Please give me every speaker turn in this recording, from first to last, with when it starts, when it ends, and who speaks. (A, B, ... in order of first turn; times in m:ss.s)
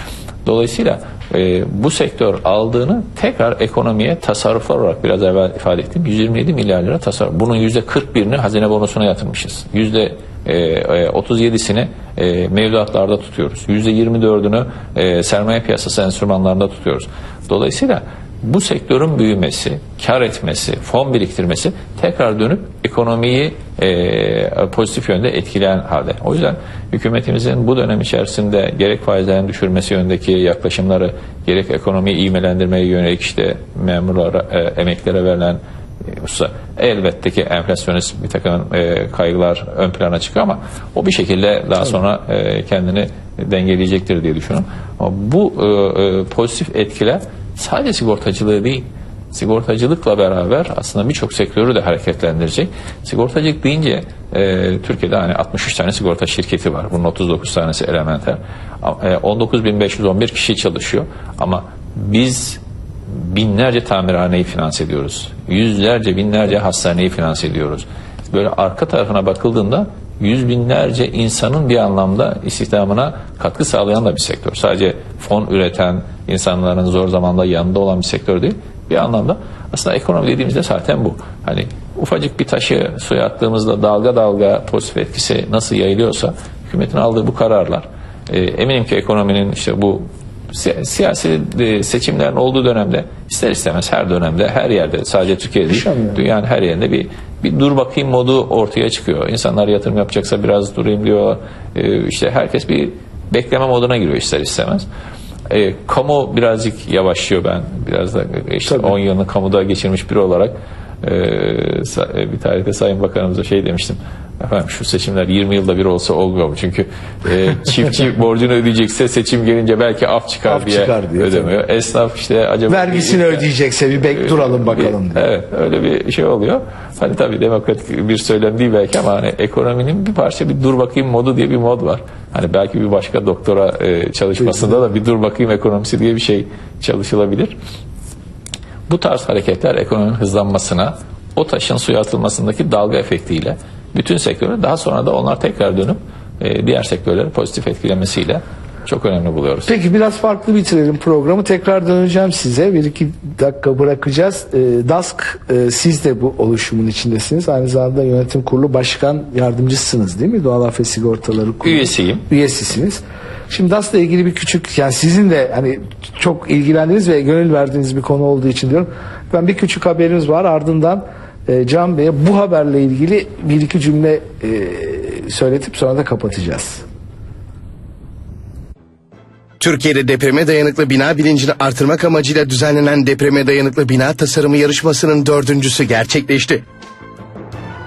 0:00.4-1:44.9 A
1:35.7-1:36.2 B
1:45.5-2:03.5 A
2:00.5-2:01.5 B
2:02.7-2:05.3 B
2:04.2-2:17.6 A
2:18.9-2:29.7 A
2:29.7-2:56.8 B
2:41.6-2:42.2 A
2:59.6-3:06.6 C